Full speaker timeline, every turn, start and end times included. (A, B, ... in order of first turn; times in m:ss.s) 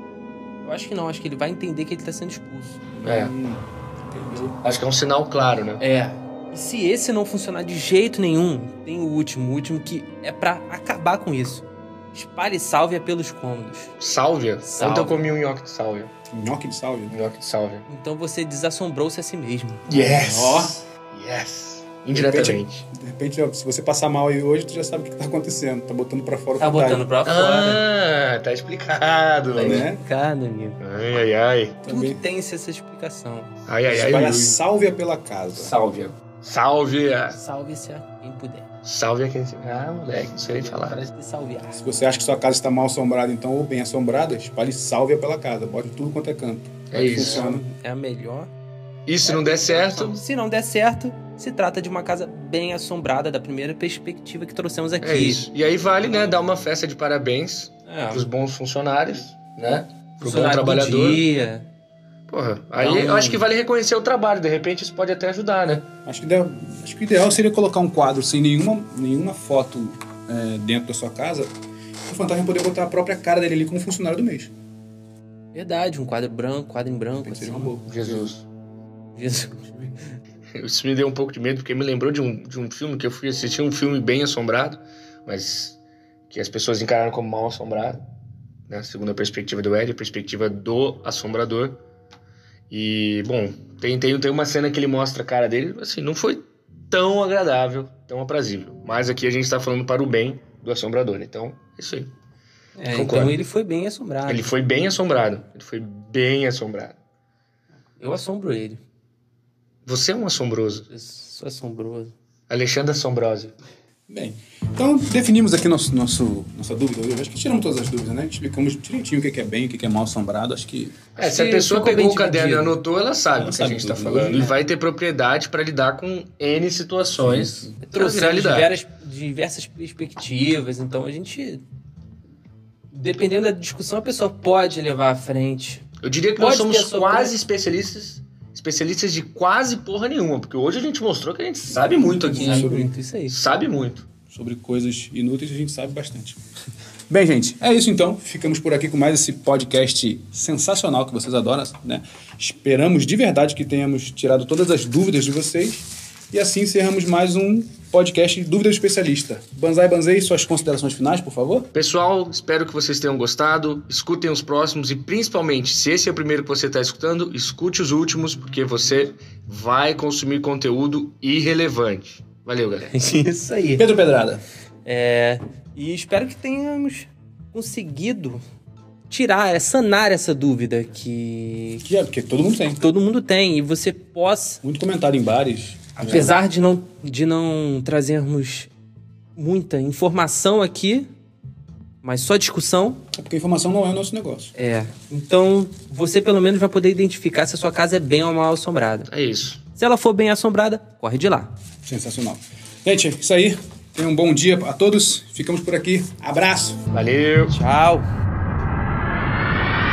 0:00.6-0:02.9 A
0:03.0-0:04.6 B
0:03.0-0:03.3 C
0:04.3-0:04.5 A
0:04.6-0:05.8 C
0:05.8-0:13.9 A
0:14.0-0:16.1 C
0:14.6-0:15.3 A
0:16.3-0:17.2 B
0:17.1-0:17.9 C
0:17.9-0:20.0 A
0:19.9-0:22.8 C
0:19.9-0:20.8 B
0:22.1-0:27.1 B
0:26.6-0:27.8 A
0:27.2-0:29.9 C
0:29.5-0:30.8 A
0:29.6-0:30.0 B
0:30.8-0:31.8 C
0:31.8-0:32.2 B
0:31.9-0:33.5 A
0:33.7-0:34.6 C
0:33.9-0:35.8 B
0:35.6-0:37.4 C
0:37.3-0:38.7 A
0:38.8-0:41.0 C
0:40.5-0:41.9 A
0:41.7-0:47.6 B
0:46.9-0:47.5 C
0:47.0-0:48.5 A
0:49.1-0:50.2 C
0:49.2-0:55.5 A
0:55.0-1:01.3 C
0:57.9-0:58.3 A
1:00.2-1:01.7 A
1:02.3-1:05.9 C
1:02.8-1:03.5 A
1:06.1-1:11.5 B
1:12.1-1:14.5 B
1:15.5-1:17.8 A
1:17.2-1:18.4 B
1:17.9-1:18.4 C
1:19.1-1:20.0 A
1:20.6-1:25.8 C
1:26.3-1:28.0 C
1:28.7-1:31.8 C
1:32.7-1:42.1 C
1:42.8-1:44.5 A
1:42.9-1:43.4 C
1:44.3-1:47.0 C
1:48.0-1:48.8 A
1:49.9-1:50.9 C
1:50.9-1:52.1 A
1:52.5-1:53.5 C
1:54.1-2:01.0 B
2:01.2-2:08.7 C
2:01.2-2:02.8 A
2:03.4-2:04.6 B
2:07.2-2:07.8 B
2:07.8-2:11.6 A
2:12.9-2:15.8 A
2:16.0-2:22.8 C
2:16.4-2:17.3 A
2:22.1-2:23.4 A
2:22.3-2:22.9 B
2:23.3-2:24.1 C
2:24.3-2:26.4 B
2:27.1-2:41.7 B
2:41.7-2:53.0 C
2:52.9-2:53.9 A
2:53.8-2:54.4 B
2:54.8-2:58.4 A
2:59.1-3:01.8 A
3:01.8-3:02.8 B
3:02.8-3:04.6 A
3:04.6-3:06.4 B
3:06.0-3:08.7 A
3:09.4-3:11.1 A
3:12.0-3:13.0 A
3:13.1-3:14.5 B
3:14.6-3:19.1 A
3:19.1-3:19.6 C
3:19.8-3:21.5 A
3:21.8-3:26.8 B
3:26.9-3:27.6 C
3:27.5-3:28.0 A